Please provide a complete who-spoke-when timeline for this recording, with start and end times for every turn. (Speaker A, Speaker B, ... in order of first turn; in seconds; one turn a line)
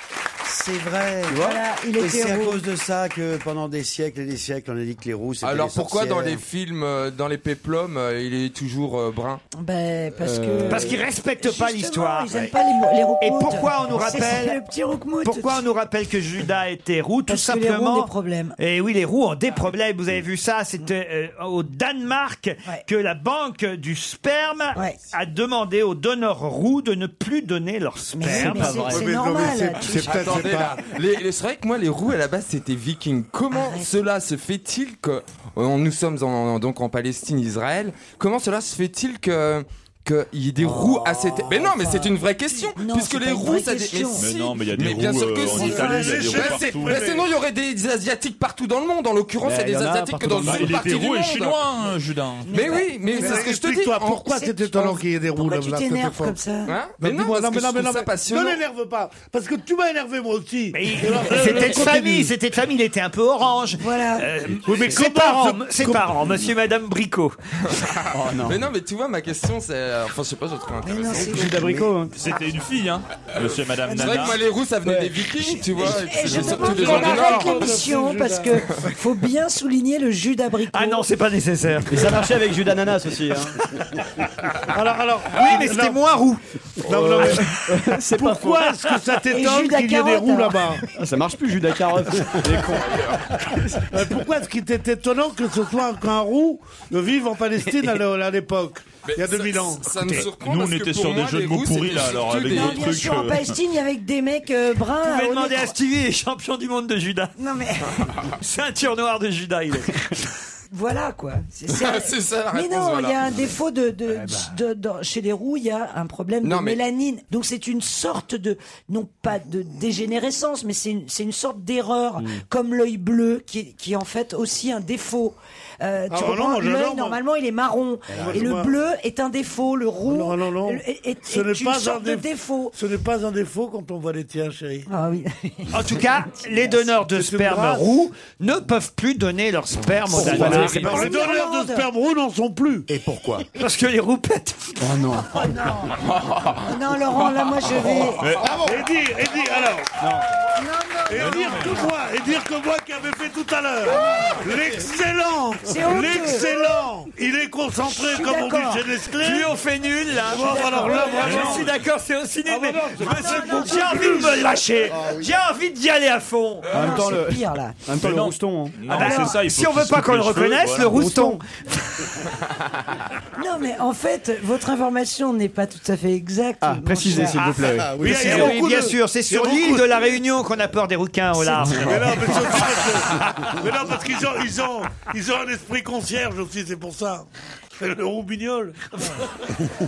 Speaker A: 0.4-6.4
Speaker B: 1.3-1.6
Speaker C: 1.4-2.6
Speaker D: 5.4-9.4
Speaker C: 9.5-15.7
Speaker B: 10.2-11.0
Speaker E: 10.7-12.5
Speaker E: 13.2-14.6
Speaker E: 15.2-29.1
Speaker C: 17.3-18.6
Speaker C: 24.8-25.0
Speaker C: 28.1-30.4
Speaker F: 28.2-30.8
Speaker B: 28.4-29.1
Speaker D: 29.9-51.6
Speaker C: 33.5-33.9
Speaker C: 40.7-44.3
Speaker G: 44.2-47.0
Speaker F: 45.5-47.3
Speaker C: 45.5-46.1
Speaker B: 49.4-51.2
Speaker G: 50.4-52.7
Speaker C: 52.5-53.5
Speaker D: 52.5-54.3
Speaker F: 53.1-56.4
Speaker C: 54.2-56.9
Speaker D: 56.7-58.6
Speaker F: 57.0-62.3
Speaker E: 60.7-67.4
Speaker C: 63.8-64.3
Speaker F: 64.6-66.3
Speaker B: 68.1-68.6
Speaker D: 68.4-71.5
Speaker C: 70.8-71.8
Speaker B: 71.3-72.1
Speaker G: 72.1-74.4
Speaker D: 73.9-77.8
Speaker C: 73.9-74.2
Speaker B: 74.8-75.3
Speaker C: 75.4-81.1
Speaker F: 76.2-78.9
Speaker E: 80.7-82.2
Speaker B: 81.9-83.6
Speaker F: 84.7-86.0
Speaker E: 85.3-86.4
Speaker F: 86.8-90.8
Speaker B: 86.8-88.7
Speaker C: 89.3-90.7
Speaker B: 91.0-93.0
Speaker D: 92.8-93.3
Speaker F: 93.8-100.3
Speaker B: 97.7-98.0
Speaker D: 99.0-102.9
Speaker G: 100.3-103.6
Speaker C: 102.5-105.8
Speaker E: 105.0-107.4
Speaker C: 107.4-108.0
Speaker E: 108.3-110.1
Speaker C: 110.7-132.8
Speaker D: 111.7-113.6
Speaker B: 114.2-114.5
Speaker D: 116.4-116.8
Speaker F: 126.1-127.2
Speaker F: 128.1-128.8
Speaker A: 128.1-128.5
Speaker F: 130.1-134.9
Speaker C: 134.9-136.2
Speaker E: 135.7-141.1
Speaker F: 136.7-137.9
Speaker B: 140.1-141.1
Speaker F: 140.2-142.9
Speaker C: 140.6-141.9
Speaker A: 142.9-143.5
Speaker E: 143.6-144.8
Speaker B: 144.8-145.4
Speaker C: 145.2-146.0
Speaker C: 146.6-148.3
Speaker F: 147.8-150.0
Speaker G: 148.2-148.6
Speaker B: 150.0-150.2
Speaker C: 150.6-151.9
Speaker F: 151.1-159.5
Speaker C: 153.9-154.4
Speaker C: 155.6-156.6
Speaker C: 157.8-158.9
Speaker E: 159.2-166.9
Speaker F: 160.2-161.7
Speaker C: 160.3-161.6
Speaker G: 161.2-161.7
Speaker F: 162.5-164.5
Speaker C: 163.0-164.4
Speaker A: 164.9-165.3
Speaker B: 166.7-168.9
Speaker C: 166.7-167.9
Speaker G: 167.9-171.1
Speaker E: 168.9-172.2
Speaker C: 169.0-169.3
Speaker B: 170.9-171.4
Speaker C: 173.4-177.6
Speaker B: 176.6-178.5
Speaker A: 177.8-178.3
Speaker F: 177.8-180.2
Speaker E: 178.0-182.7
Speaker C: 181.4-181.7
Speaker F: 181.7-189.1